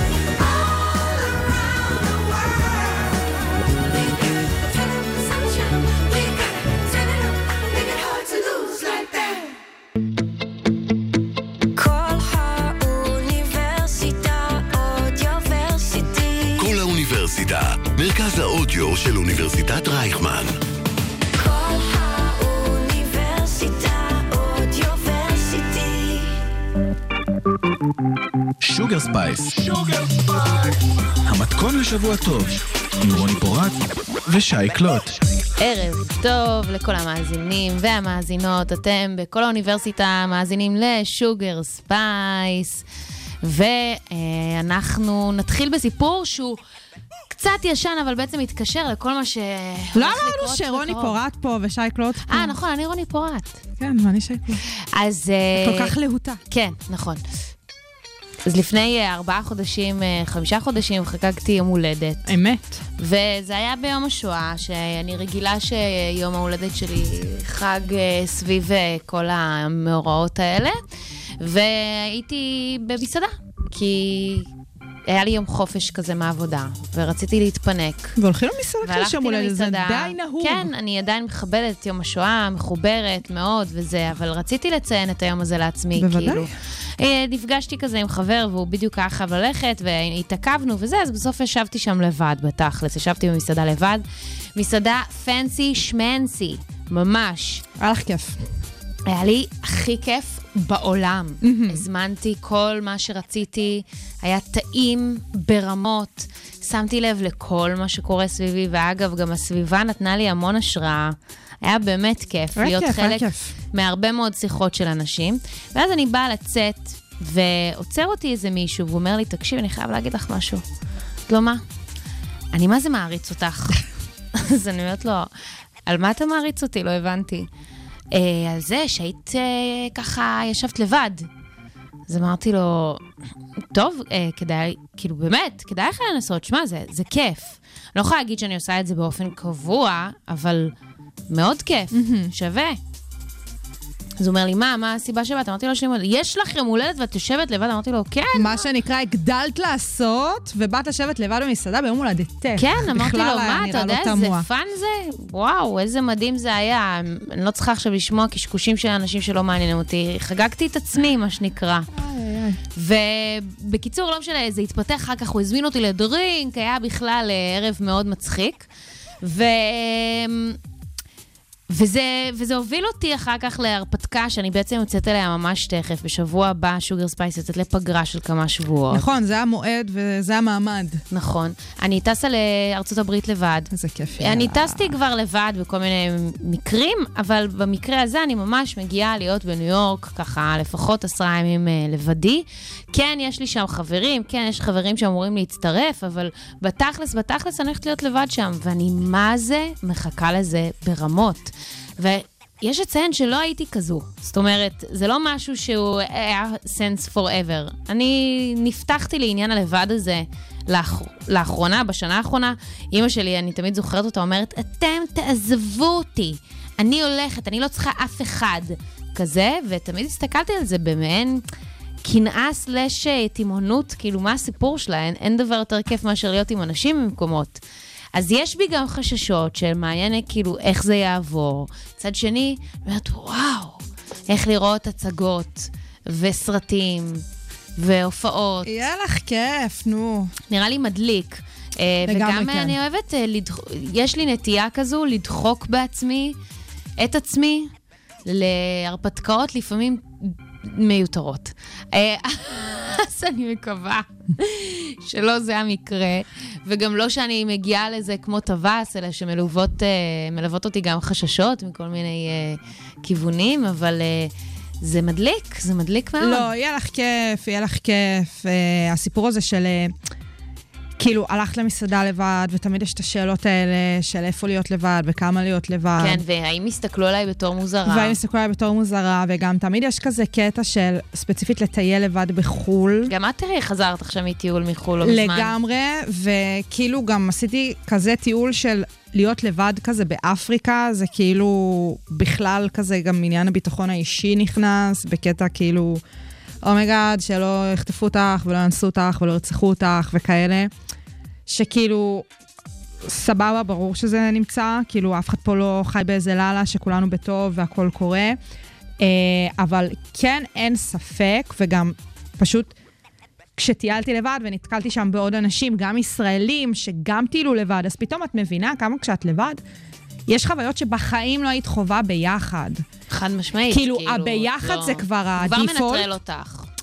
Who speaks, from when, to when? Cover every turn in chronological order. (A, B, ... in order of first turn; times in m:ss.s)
0:00.4-0:03.1 A
0:03.8-0:09.5 A
0:11.7-0:16.8 A
0:16.6-0:20.6 B
0:21.4-0:26.4 A
0:28.6-0:35.2 C
0:35.6-0:42.8 D
0:43.4-0:46.6 D
0:47.3-0:51.2 D
0:50.0-0:52.6 E
0:52.3-0:53.6 D
0:53.8-0:54.6 E
0:54.9-0:56.0 D
0:55.6-0:56.4 E
0:56.5-0:57.2 D
0:58.4-1:02.4 D
1:02.2-1:02.8 E
1:03.0-1:10.8 D
1:11.4-1:14.5 D
1:15.1-1:18.2 D
1:18.2-1:20.7 E
1:18.8-1:34.0 D
1:26.0-1:26.5 E
1:34.6-1:37.6 D
1:37.8-1:38.4 E
1:39.1-2:00.6 D
1:41.4-1:41.8 E
1:52.6-1:53.5 E
2:01.3-2:01.6 D
2:02.5-2:03.8 D
2:04.4-2:05.3 D
2:05.8-2:07.5 D
2:08.1-2:11.3 D
2:12.1-2:13.0 D
2:13.7-2:20.8 D
2:21.3-2:22.8 D
2:21.9-2:22.3 E
2:24.2-2:28.7 D
2:28.3-2:34.5 E
2:32.6-2:41.9 D
2:41.9-2:42.6 E
2:42.8-2:48.7 D
2:49.2-2:50.6 D
2:51.7-2:59.1 D
2:58.9-3:01.0 E
3:01.1-3:41.4 D
3:03.7-3:04.9 E
3:42.0-3:47.6 D
3:48.2-3:57.2 D
3:57.8-3:58.7 D
3:58.6-4:00.3 E
4:00.5-4:06.4 D
4:02.0-4:02.8 E
4:07.0-4:07.7 D
4:08.3-4:26.5 D
4:26.2-4:29.9 E
4:31.0-4:36.2 E
4:36.0-4:38.2 D
4:37.8-4:43.1 E
4:43.1-4:45.6 D
4:45.0-4:56.0 E
4:56.6-5:00.7 E
5:01.5-5:02.3 E
5:03.0-5:08.4 E
5:09.0-5:12.7 E
5:13.6-5:19.6 E
5:20.3-5:22.8 E
5:23.1-5:26.7 D
5:23.7-5:26.1 E